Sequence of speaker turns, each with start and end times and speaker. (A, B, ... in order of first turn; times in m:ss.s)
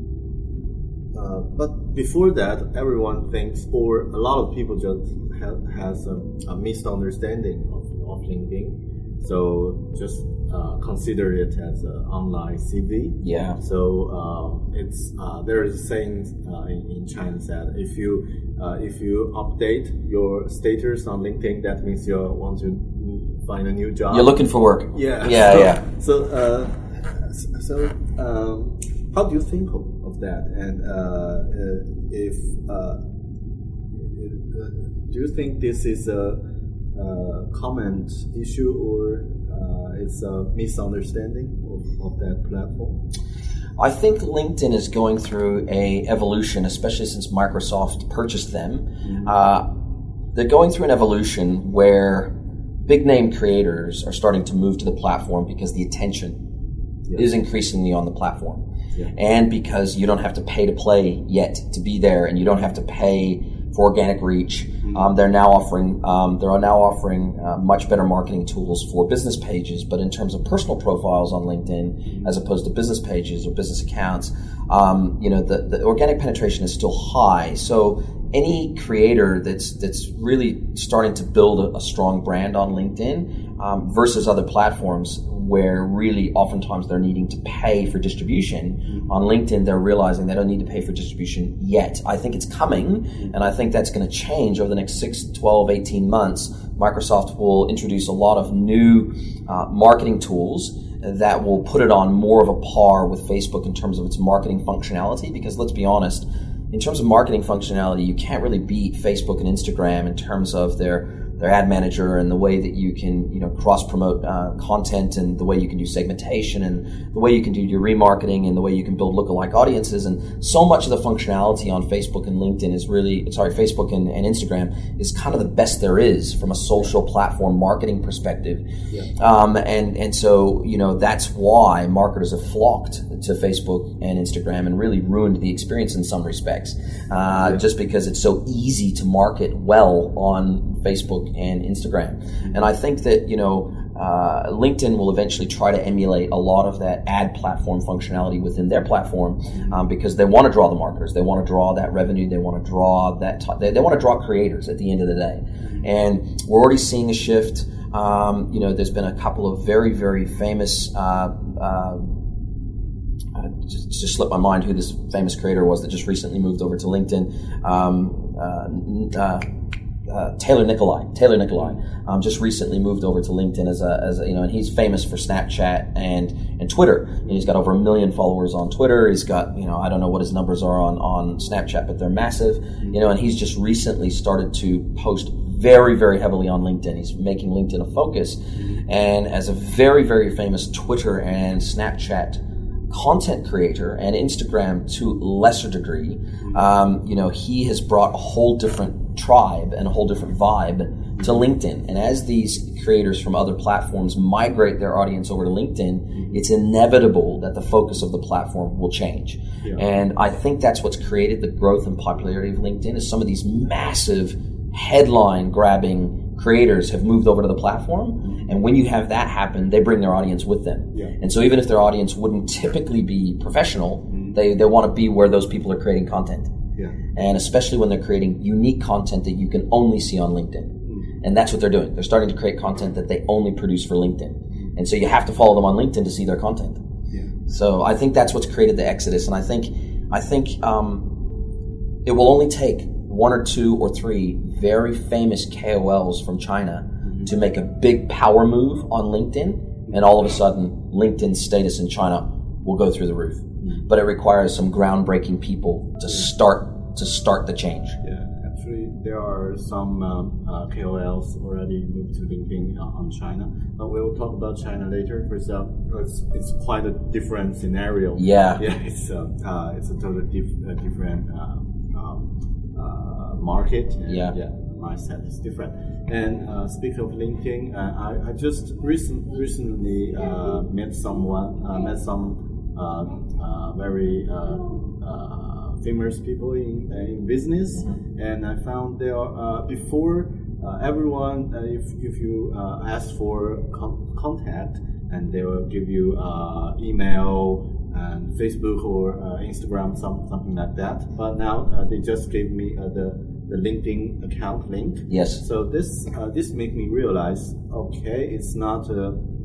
0:01.1-0:24.4 A
0:13.2-0:13.6 B
0:24.1-0:25.8 B
0:24.9-0:33.0 A
0:33.9-0:36.4 A
0:37.0-0:43.0 A
0:43.8-0:49.7 B
0:49.0-0:49.4 A
0:50.3-0:56.4 B
0:57.2-0:58.6 B
0:59.1-2:08.6 B
1:04.8-1:05.1 A
1:12.0-1:12.3 A
2:09.2-2:42.1 B
2:22.4-2:22.7 A
2:29.5-2:29.8 A
2:35.6-2:35.9 A
2:43.4-2:49.4 B
2:50.1-3:46.5 B
3:08.6-3:08.8 A
3:16.4-3:16.7 A
3:26.1-3:26.4 A
3:38.2-3:38.5 A
3:44.1-3:44.4 A
3:47.2-3:56.8 B
3:50.9-3:51.1 A
3:57.5-4:01.1 B
4:02.0-4:18.0 B
4:07.0-4:07.3 A
4:13.6-4:13.9 A
4:18.0-5:09.2 A
4:28.2-4:28.6 B
4:34.1-4:34.4 B
5:05.1-5:05.4 B